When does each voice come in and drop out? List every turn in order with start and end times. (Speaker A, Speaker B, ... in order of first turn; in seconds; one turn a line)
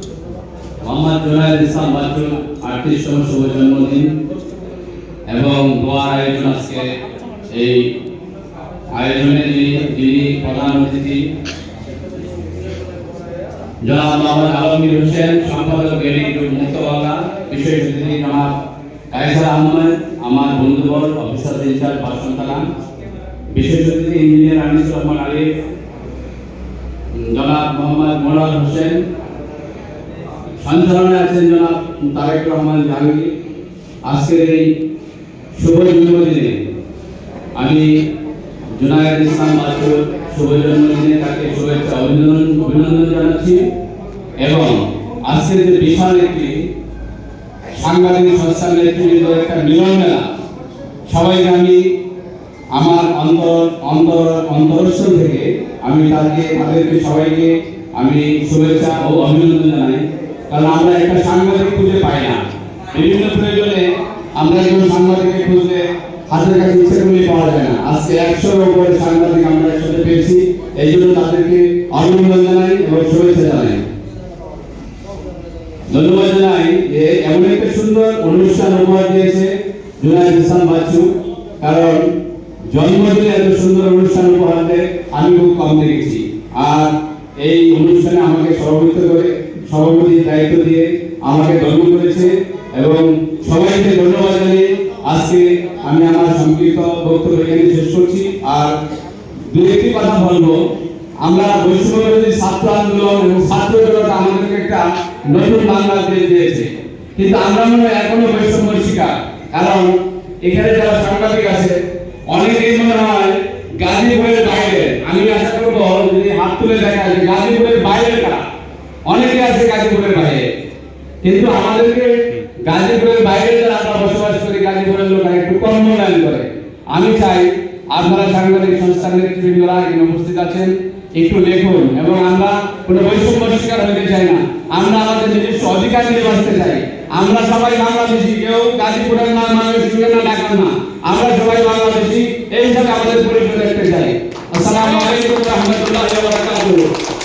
Speaker A: 0.8-4.1
Speaker A: 5.3-6.9
Speaker A: 7.5-7.9
Speaker A: 8.9-11.2
Speaker A: 13.8-18.5
Speaker A: 19.1-22.7
Speaker A: 23.5-25.5
Speaker A: 27.1-29.0
Speaker A: 30.6-33.3
Speaker A: 34.0-34.7
Speaker A: 35.5-36.6
Speaker A: 37.5-38.0
Speaker A: 38.7-43.6
Speaker A: 44.4-46.6
Speaker A: 47.7-50.2
Speaker A: 51.1-51.9
Speaker A: 52.7-62.4
Speaker A: 62.9-73.8
Speaker A: 75.9-81.1
Speaker A: 81.6-82.1
Speaker A: 82.7-98.8
Speaker A: 99.5-100.6
Speaker A: 101.2-111.8
Speaker A: 112.3-118.4
Speaker A: 119.1-120.5
Speaker A: 121.2-146.9